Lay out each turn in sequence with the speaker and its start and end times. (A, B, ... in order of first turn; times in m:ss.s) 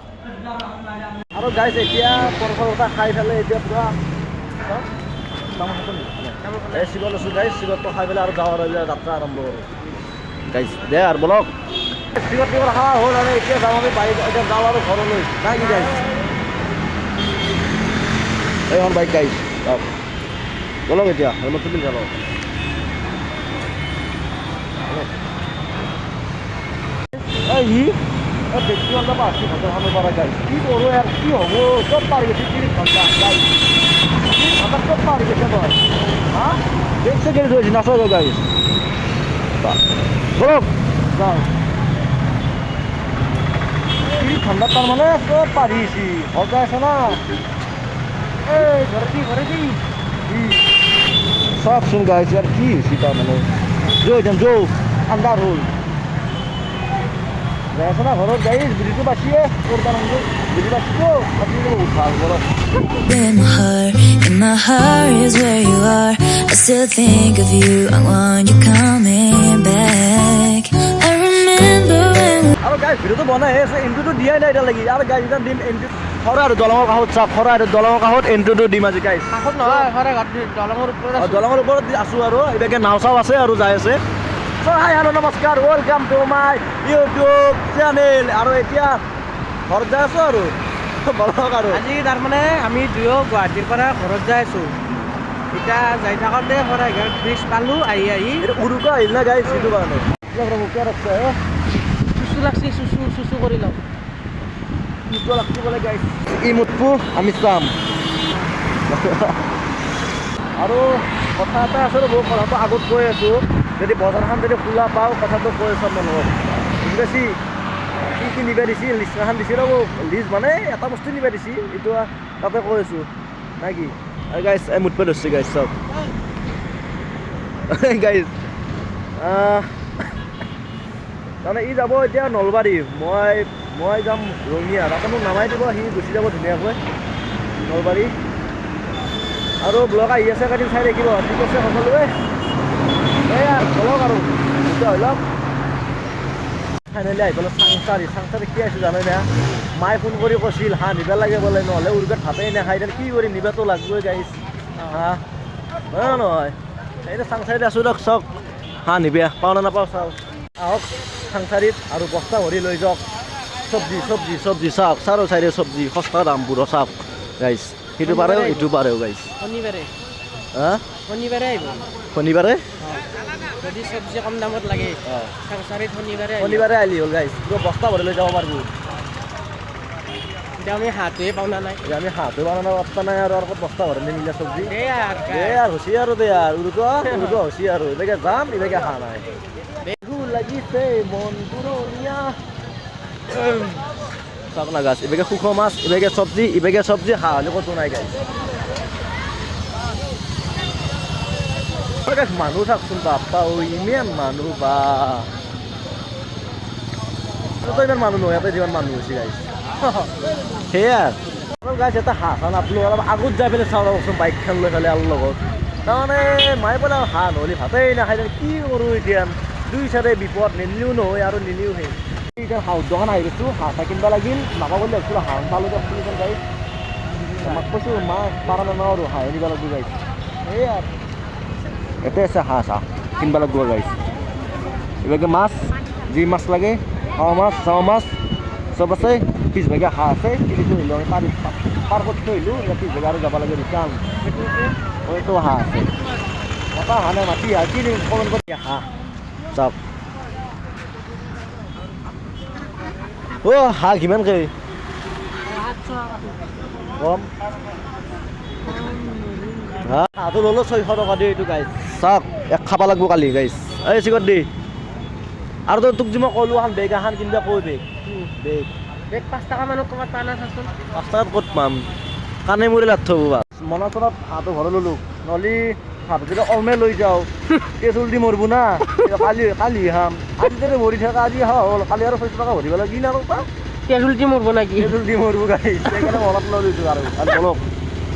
0:01.4-0:04.0 A
0:05.6-0:09.7 A
0:06.4-0:06.9 B
0:10.5-0:11.5 A
0:12.1-0:16.0 A
0:18.7-0:19.9 A
0:20.9-0:22.2 A
0:24.8-0:25.1 A
0:27.5-0:28.0 A
0:28.5-0:33.5 A
0:34.2-0:35.8 A
0:36.3-0:38.5 A
0:40.4-0:41.5 A
0:44.1-0:47.2 A
0:48.4-0:49.8 B
0:50.3-0:50.6 A
0:51.6-0:55.7 A
0:57.7-1:02.5 A
1:03.1-1:12.5 C
1:12.6-1:19.9 A
1:19.3-1:21.5 B
1:21.2-1:24.0 A
1:24.6-1:29.0 A
1:29.7-1:31.8 A
1:31.7-1:34.7 B
1:35.5-1:38.4 B
1:38.4-1:41.4 A
1:39.4-1:39.7 B
1:42.2-1:43.8 B
1:45.1-1:47.7 A
1:48.9-1:49.4 A
1:50.6-1:57.4 A
1:58.0-2:05.8 A
2:07.7-2:08.3 A
2:09.2-2:09.7 A
2:11.4-2:16.8 A
2:17.7-2:18.1 A
2:19.6-2:22.1 A
2:23.3-2:25.2 A
2:26.9-2:35.2 A
2:35.9-2:38.3 A
2:38.8-2:43.0 A
2:43.7-2:49.3 A
2:48.0-2:48.7 B
2:49.4-2:49.9 B
2:50.5-2:50.8 A
2:51.1-2:51.8 B
2:52.1-2:52.6 A
2:53.6-2:56.7 B
2:55.1-2:55.3 A
2:56.4-2:58.7 A
3:00.6-3:01.8 B
3:01.8-3:04.7 A
3:04.7-3:05.6 B
3:05.3-3:09.3 A
3:07.0-3:07.4 B
3:10.0-3:12.4 A
3:13.3-3:13.9 A
3:14.5-3:18.2 A
3:22.0-3:25.3 A
3:27.6-3:29.5 A
3:29.8-3:30.1 B
3:30.7-3:46.4 A
3:47.4-3:50.9 A
3:52.0-3:54.0 A
3:55.0-3:58.2 A
3:58.7-4:04.1 A
4:04.2-4:04.7 B
4:05.0-4:05.9 A
4:06.7-4:08.9 A
4:13.4-4:14.5 A
4:15.7-4:16.2 B
4:17.0-4:17.3 A
4:18.7-4:19.7 B
4:19.8-4:24.5 A
4:25.7-4:27.9 A
4:28.4-4:28.7 A
4:29.1-4:30.7 B
4:30.9-4:31.9 A
4:32.4-4:43.5 A
4:43.9-4:45.0 B
4:44.8-4:47.6 A